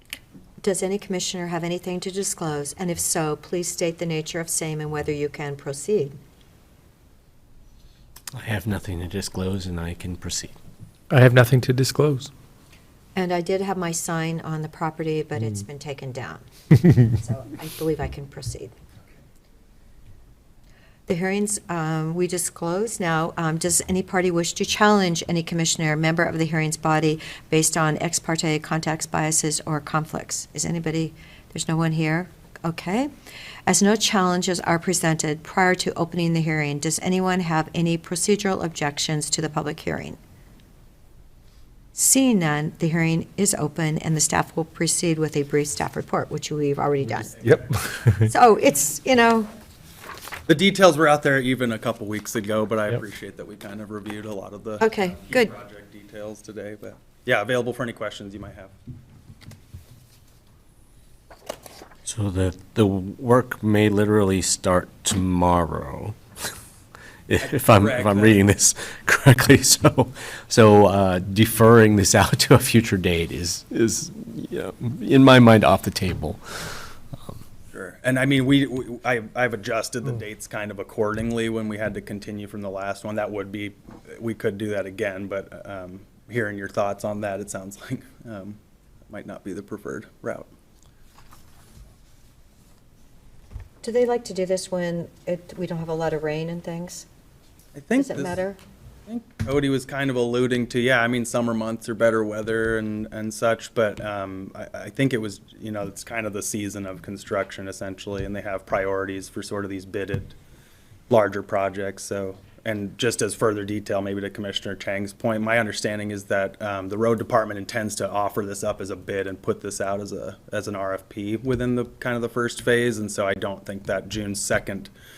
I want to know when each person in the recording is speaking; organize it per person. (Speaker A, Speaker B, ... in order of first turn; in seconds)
Speaker A: 0.6-6.2, 13.1-18.7, 21.1-33.1, 33.7-40.2, 41.9-47.4, 48.2-49.5, 54.8-55.5, 93.8-97.0, 98.0-98.6
Speaker B: 8.3-10.5, 62.0-66.2, 67.3-76.7
Speaker C: 11.1-12.3, 47.4-48.3
Speaker D: 47.3-47.8, 50.5-58.7, 67.4-68.4, 77.7-90.5, 97.7-98.4, 99.1-110.3, 111.1-124.9